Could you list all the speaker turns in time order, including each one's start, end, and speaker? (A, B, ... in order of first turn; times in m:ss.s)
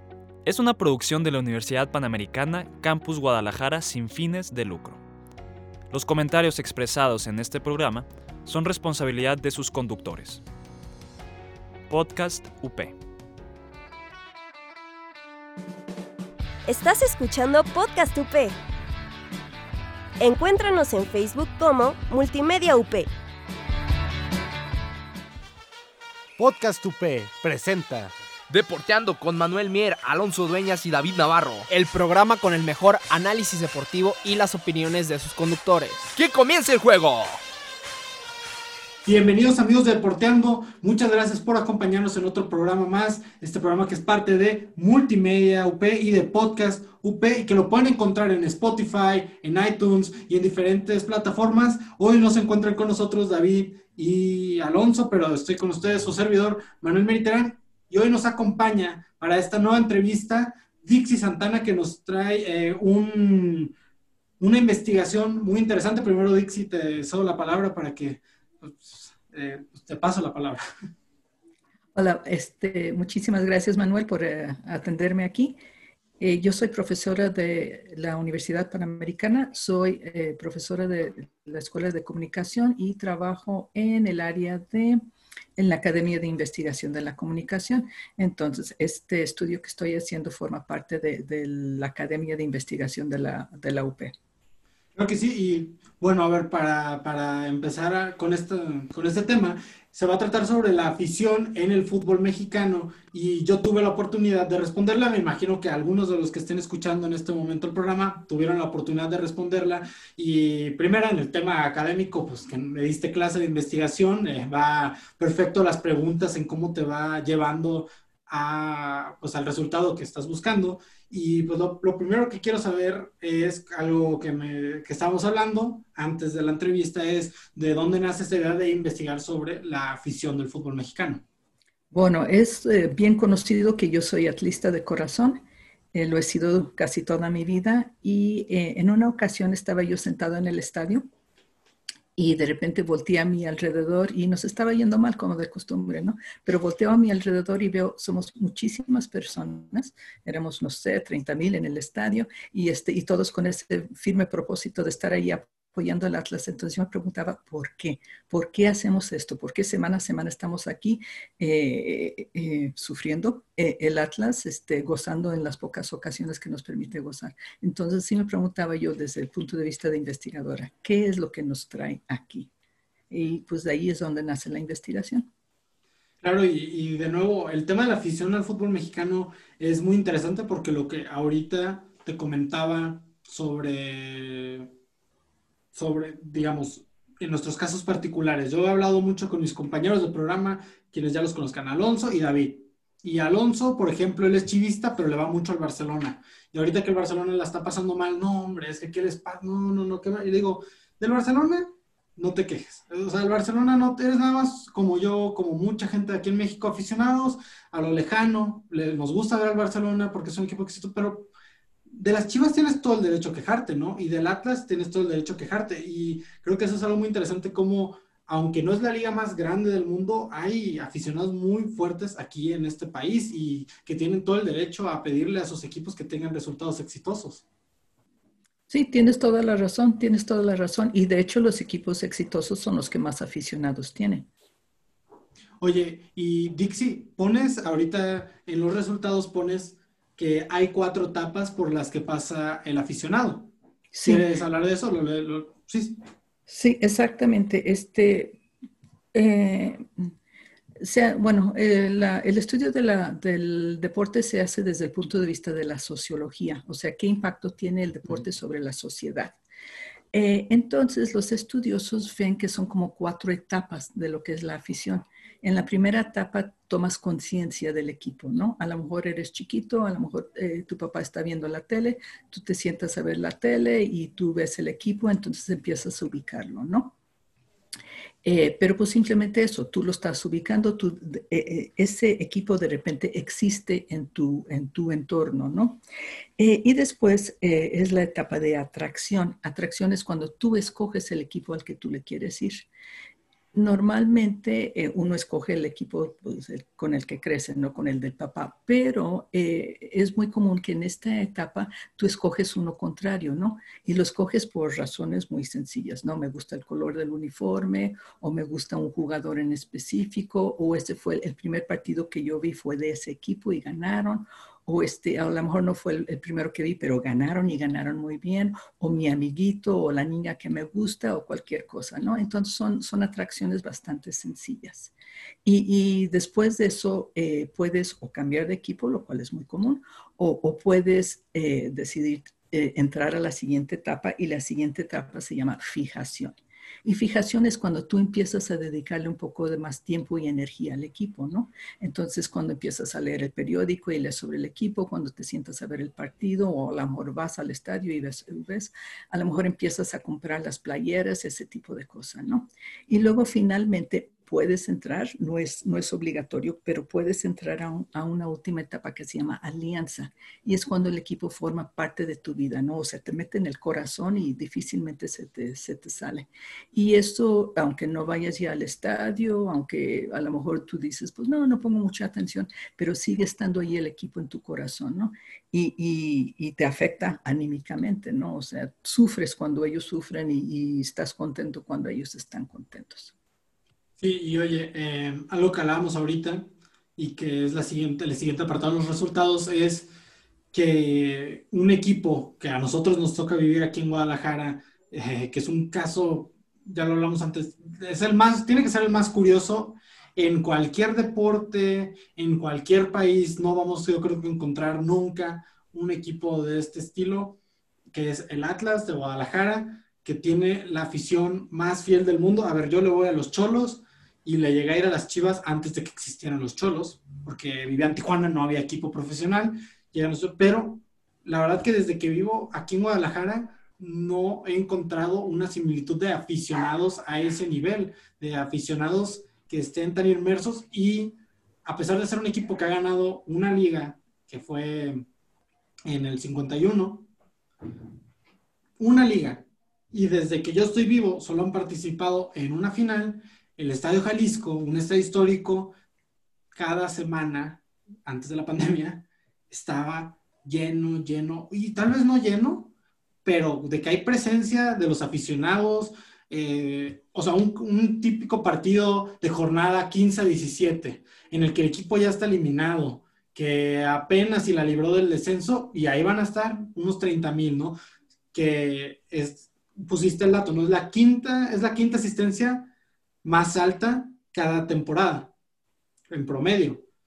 0:00.4-0:05.0 A
0:05.9-0:10.4 A
0:11.9-0:13.0 A
0:16.7-0:18.6 B
0:20.2-0:23.1 B
0:26.4-0:28.1 C
0:28.5-0:31.7 D
0:31.7-0:36.1 C
0:36.2-0:37.4 D
0:39.0-1:03.7 E
1:04.4-1:10.6 E
1:12.0-1:15.6 F
1:16.2-1:25.0 F
1:25.6-1:34.1 F
1:35.0-2:11.2 E
2:11.9-2:15.4 F
2:15.9-2:21.1 F
2:22.2-2:52.5 F
2:53.1-2:55.3 F
2:56.2-3:04.7 E
3:05.7-3:31.3 E
3:31.9-3:47.4 E
3:48.7-3:54.3 F
3:55.6-4:03.5 E
4:03.9-4:04.2 F
4:04.0-4:06.0 E
4:06.5-4:08.4 F
4:09.1-4:10.1 F
4:10.8-4:19.4 F
4:20.1-4:36.9 F
4:38.2-4:45.8 F
4:46.4-4:52.7 F
4:53.5-5:24.9 F
5:25.4-6:23.1 F
6:24.0-6:29.9 E
6:30.5-6:47.4 E
6:47.9-7:15.1 E
7:15.9-7:17.1 E
7:18.8-7:25.7 E
7:26.5-7:32.7 E
7:33.2-7:47.8 E
7:48.3-7:52.7 E
7:53.2-7:55.3 E
7:56.1-7:56.8 E